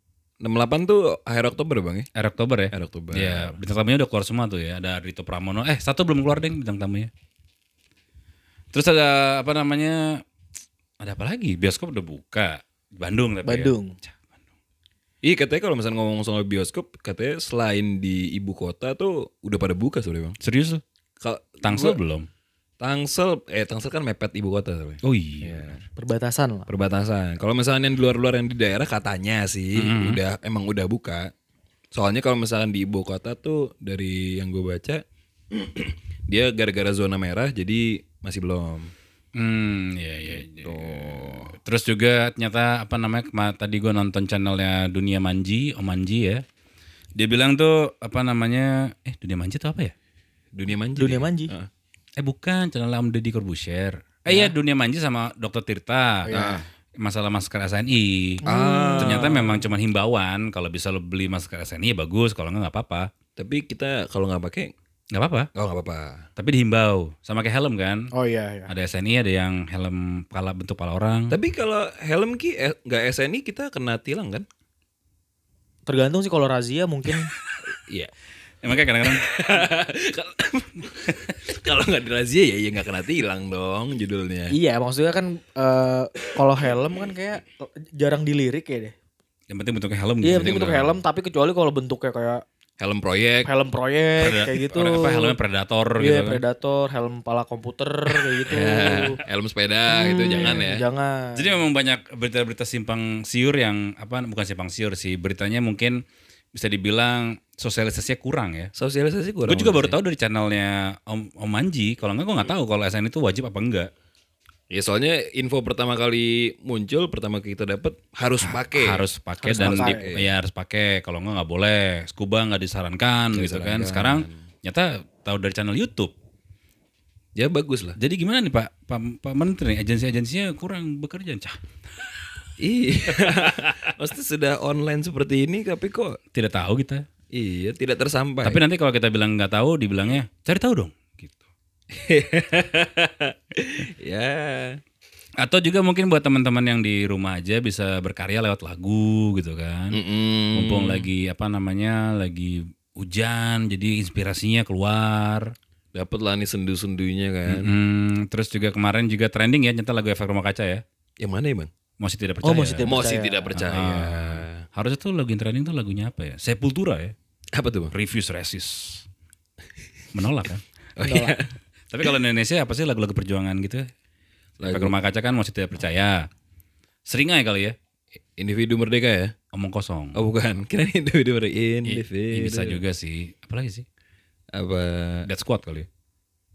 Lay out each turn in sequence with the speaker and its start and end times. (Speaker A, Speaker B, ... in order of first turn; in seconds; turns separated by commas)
Speaker A: 0.4-2.0, Speaker B: 2.1-7.1, Speaker A: 2.7-3.6, Speaker B: 8.7-10.2, Speaker B: 11.0-14.2, Speaker C: 13.4-13.9, Speaker A: 15.2-20.4, Speaker B: 20.4-20.8, Speaker A: 21.2-22.0, Speaker B: 21.6-22.3, Speaker A: 22.8-25.8, Speaker B: 25.0-25.8, Speaker C: 25.9-26.7, Speaker A: 26.7-31.3, Speaker B: 29.7-30.2, Speaker A: 31.9-38.9, Speaker B: 39.4-46.4, Speaker A: 40.3-41.5, Speaker B: 47.1-49.9, Speaker A: 50.5-51.7, Speaker C: 51.0-51.5, Speaker B: 52.2-56.3, Speaker C: 56.2-56.6, Speaker A: 56.3-56.6, Speaker B: 57.0-58.4, Speaker C: 58.4-59.5, Speaker A: 58.4-59.6, Speaker B: 59.0-63.1, Speaker A: 63.4-64.7, Speaker B: 65.1-65.5, Speaker A: 65.5-66.3, Speaker B: 66.4-68.1, Speaker C: 68.1-68.7, Speaker B: 68.7-71.3, Speaker A: 71.3-74.5, Speaker C: 75.9-77.3, Speaker A: 77.8-78.1, Speaker B: 78.6-79.7, Speaker A: 79.0-84.5, Speaker C: 84.5-88.9, Speaker B: 89.5-90.9, Speaker C: 90.2-92.4, Speaker A: 92.8-93.5, Speaker C: 93.4-95.3, Speaker B: 94.2-96.4, Speaker C: 96.0-99.2, Speaker A: 98.5-100.8, Speaker C: 99.9-101.5, Speaker B: 101.3-106.0, Speaker B: 106.5-108.7, Speaker A: 108.7-110.0, Speaker B: 109.5-113.9, Speaker A: 114.7-120.3, Speaker B: 118.4-126.1, Speaker C: 119.4-120.1, Speaker A: 123.3-124.3, Speaker A: 127.3-128.0, Speaker B: 128.0-131.6, Speaker A: 132.6-136.2, Speaker B: 133.2-133.9, Speaker B: 136.3-137.0, Speaker A: 137.3-138.6, Speaker B: 138.4-141.3, Speaker A: 141.9-144.8, Speaker B: 145.4-150.0, Speaker A: 149.9-151.1, Speaker B: 150.5-155.5, Speaker A: 155.9-157.7, Speaker B: 157.5-160.8, Speaker A: 161.2-161.7, Speaker B: 162.0-163.0, Speaker C: 162.4-163.5, Speaker A: 162.8-164.6, Speaker B: 163.5-167.1, Speaker A: 167.5-167.9, Speaker B: 167.9-169.0, Speaker B: 170.1-170.6, Speaker A: 171.0-172.1, Speaker C: 171.0-171.3, Speaker B: 171.9-173.9, Speaker A: 174.6-174.9, Speaker B: 174.6-176.3, Speaker B: 177.1-177.7, Speaker A: 178.4-179.3, Speaker B: 179.5-180.2, Speaker A: 180.1-182.8, Speaker B: 181.8-183.8, Speaker A: 184.5-185.3, Speaker B: 185.2-185.9